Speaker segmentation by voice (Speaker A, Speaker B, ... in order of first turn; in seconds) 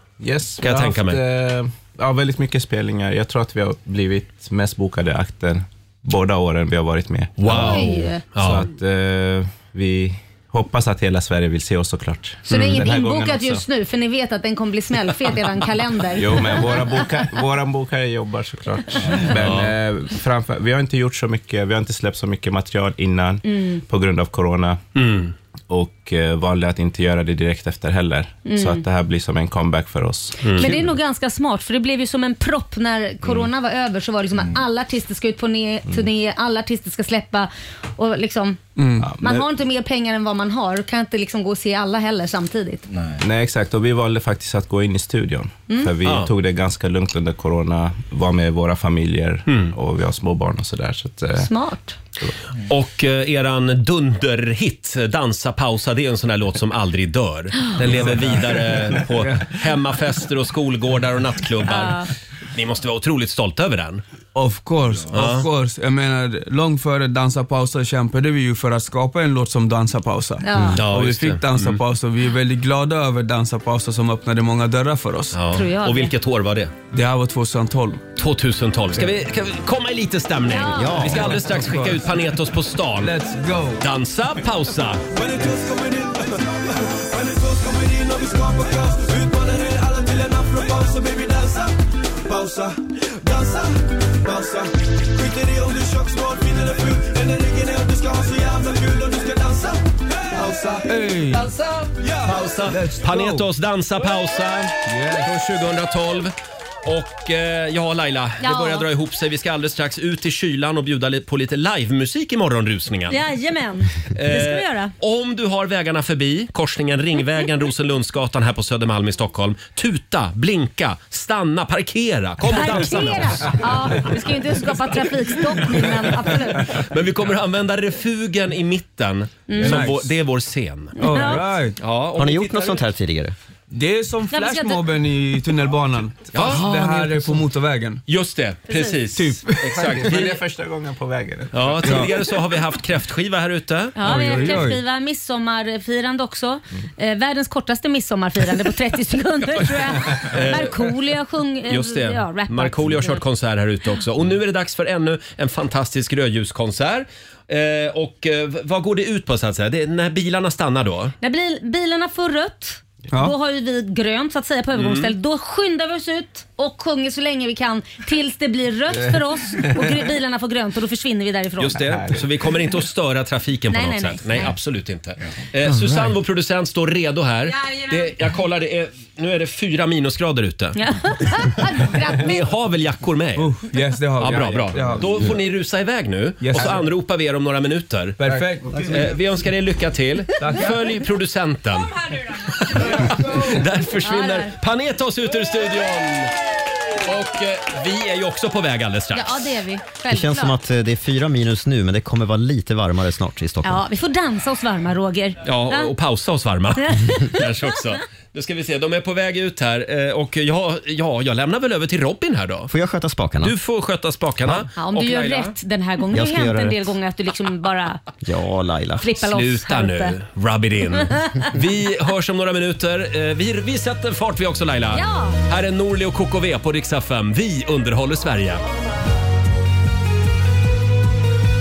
Speaker A: 0.2-13.6, 16.1-24.8, 25.7-30.9, 33.2-33.5, 39.0-39.5, 43.0-51.5, 139.7-142.3, 184.3-185.0, 188.3-188.9
Speaker B: 0.6-1.2, 7.4-8.6, 12.5-12.8, 19.4-19.7, 24.9-25.3, 30.4-30.7, 46.0-46.3, 49.5-49.7, 52.7-64.0, 65.1-65.5, 70.7-71.8, 75.3-76.7, 78.2-83.2, 83.8-85.0, 102.2-106.3, 106.8-113.2, 114.1-123.6, 126.6-132.8, 136.3-136.7, 138.1-140.4, 141.5-144.6, 150.1-150.9, 151.7-161.1, 164.8-165.1, 171.6-180.8, 182.1-183.6, 184.2-188.2, 188.8-196.3, 197.0-199.5, 205.4-212.7, 213.4-215.5, 219.2-228.6
Speaker C: 7.5-8.2, 12.4-17.0, 23.4-23.8, 28.4-28.8, 30.5-38.6, 39.2-42.8, 51.4-52.0, 61.7-62.0, 70.4-70.8, 75.5-76.1, 80.5-81.1, 108.4-108.9, 113.1-114.9, 122.4-126.7, 129.5-129.9, 130.9-131.5, 134.3-134.8, 138.7-139.0, 143.9-153.2, 161.2-171.9, 173.7-174.5, 177.4-178.1, 180.8-182.4, 194.0-194.5, 199.1-200.6, 203.6-205.9, 206.8-207.4, 214.8-218.0, 219.0-220.1, 221.0-221.4, 224.9-225.4
Speaker D: 38.8-39.1, 59.2-59.5, 64.3-75.4, 76.9-78.0, 81.1-82.3, 82.9-83.8, 100.8-101.5, 102.2-103.5, 104.8-105.2, 129.5-130.1, 131.0-131.8, 133.7-138.0, 139.1-139.9, 141.8-142.1, 144.0-144.8, 163.1-163.3, 183.4-185.1, 186.4-186.9, 188.2-188.9, 190.4-191.0
Speaker E: 80.7-81.3, 132.1-133.3, 200.1-203.8, 212.7-213.5, 216.1-216.9, 218.2-219.1
Speaker F: 85.1-91.7, 92.3-100.8